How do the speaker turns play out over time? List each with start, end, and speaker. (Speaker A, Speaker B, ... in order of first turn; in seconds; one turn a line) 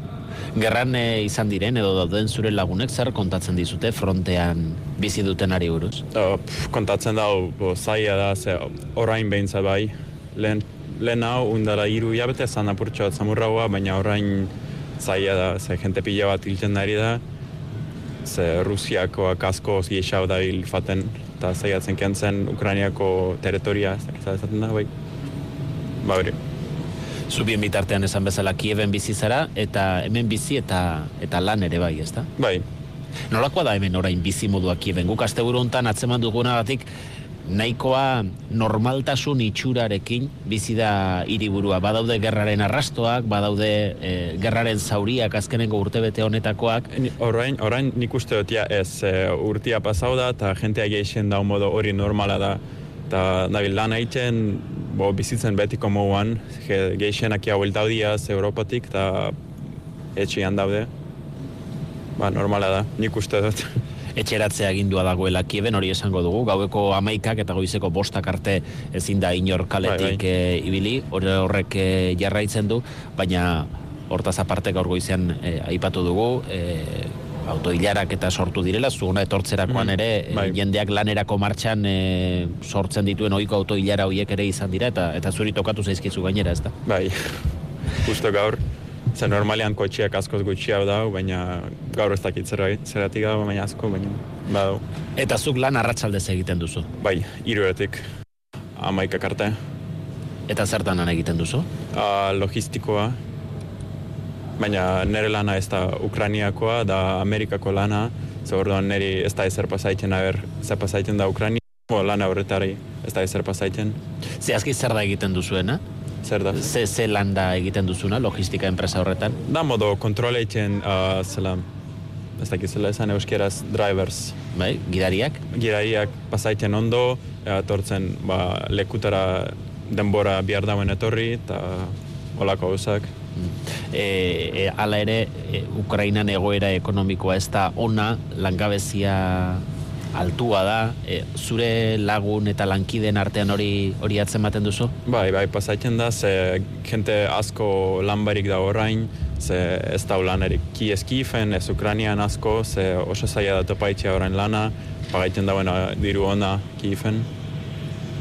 Speaker A: 0.5-6.0
Speaker B: 6.1-17.2
Speaker B: 18.2-24.9
Speaker B: 26.0-26.4
Speaker A: 27.3-32.3
Speaker B: 32.4-32.6
Speaker A: 33.3-36.9
Speaker A: 37.4-46.9
Speaker B: 46.9-59.4
Speaker B: 60.1-60.9
Speaker B: 62.2-63.6
Speaker A: 64.1-86.7
Speaker B: 69.8-70.2
Speaker B: 79.7-80.6
Speaker B: 86.8-87.2
Speaker B: 88.0-88.6
Speaker B: 89.1-94.8
Speaker A: 95.2-96.9
Speaker B: 97.0-98.0
Speaker B: 98.8-99.5
Speaker A: 100.5-101.7
Speaker B: 101.9-103.2
Speaker B: 104.6-114.0
Speaker A: 114.4-115.8
Speaker B: 116.2-116.7
Speaker A: 116.5-119.4
Speaker B: 119.5-121.6
Speaker B: 122.4-124.4
Speaker A: 124.5-125.4
Speaker B: 125.5-133.1
Speaker A: 133.4-144.9
Speaker B: 145.1-157.3